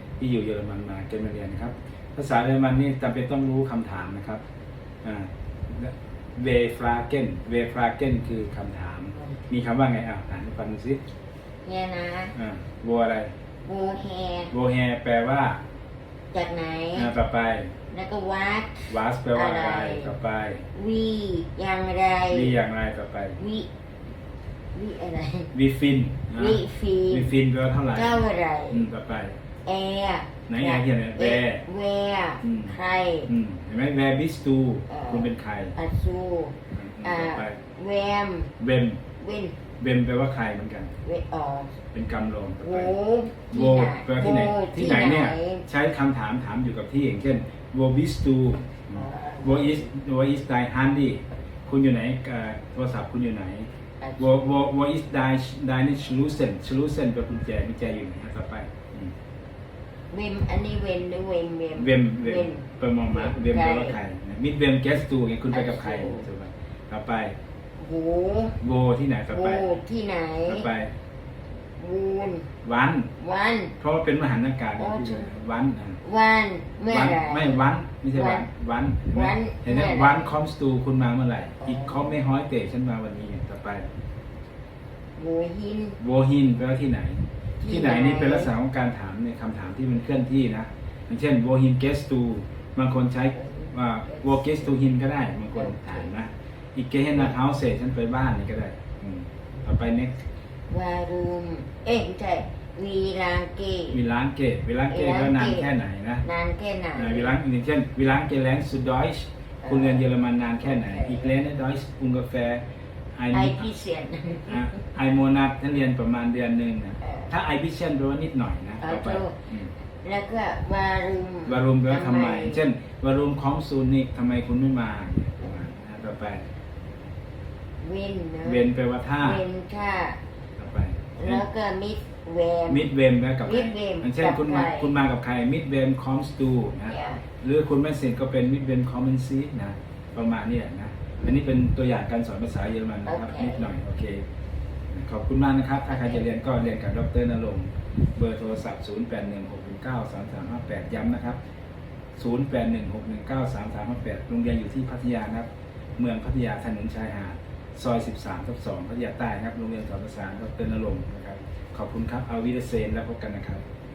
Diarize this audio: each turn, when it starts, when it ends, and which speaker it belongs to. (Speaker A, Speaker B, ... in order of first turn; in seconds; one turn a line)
Speaker A: 0.2-4.4
Speaker A: 5.0-11.0
Speaker B: 11.6-12.3
Speaker A: 12.3-13.3
Speaker B: 13.6-14.5
Speaker A: 14.5-15.6
Speaker B: 16.3-17.1
Speaker A: 16.9-17.7
Speaker B: 17.9-20.1
Speaker A: 18.9-20.6
Speaker B: 20.7-22.6
Speaker A: 22.3-23.4
Speaker B: 23.4-23.7
Speaker B: 24.7-25.5
Speaker A: 25.5-29.4
Speaker B: 26.3-27.3
Speaker B: 27.9-28.8
Speaker B: 29.6-33.3
Speaker A: 30.5-31.6
Speaker A: 32.4-32.7
Speaker A: 33.3-35.8
Speaker B: 34.9-38.5
Speaker A: 36.7-37.6
Speaker A: 38.6-39.0
Speaker B: 39.2-39.6
Speaker A: 39.8-40.9
Speaker B: 41.0-41.8
Speaker A: 41.9-42.9
Speaker B: 42.6-45.7
Speaker A: 43.5-59.1
Speaker B: 48.9-49.9
Speaker B: 54.0-54.3
Speaker B: 60.1-64.0
Speaker A: 61.8-67.3
Speaker B: 65.5-66.3
Speaker B: 67.8-68.6
Speaker A: 68.6-69.7
Speaker B: 69.3-70.7
Speaker A: 70.5-70.9
Speaker B: 71.8-72.5
Speaker A: 72.6-73.1
Speaker B: 73.2-73.8
Speaker A: 73.8-76.0
Speaker B: 74.8-75.3
Speaker B: 76.0-78.5
Speaker A: 76.9-83.9
Speaker B: 79.1-80.3
Speaker B: 81.6-82.1
Speaker B: 85.2-86.0
Speaker A: 86.0-100.2
Speaker B: 87.6-88.5
Speaker B: 93.3-94.7
Speaker B: 95.5-96.1
Speaker B: 100.7-104.0
Speaker A: 103.9-106.2
Speaker B: 104.9-105.7
Speaker B: 106.2-107.3
Speaker A: 106.9-112.6
Speaker B: 109.6-110.0
Speaker B: 110.6-111.3
Speaker A: 113.2-113.7
Speaker B: 113.3-114.8
Speaker A: 114.5-119.7
Speaker B: 117.0-117.3
Speaker B: 118.8-119.4
Speaker B: 120.0-122.6
Speaker A: 121.5-126.4
Speaker B: 127.8-128.7
Speaker A: 128.4-129.4
Speaker B: 129.2-130.2
Speaker A: 130.6-131.4
Speaker B: 131.2-132.9
Speaker A: 132.7-144.2
Speaker B: 133.4-134.9
Speaker B: 136.9-137.2
Speaker B: 143.0-143.7
Speaker A: 144.9-151.4
Speaker B: 145.9-146.2
Speaker A: 152.2-163.8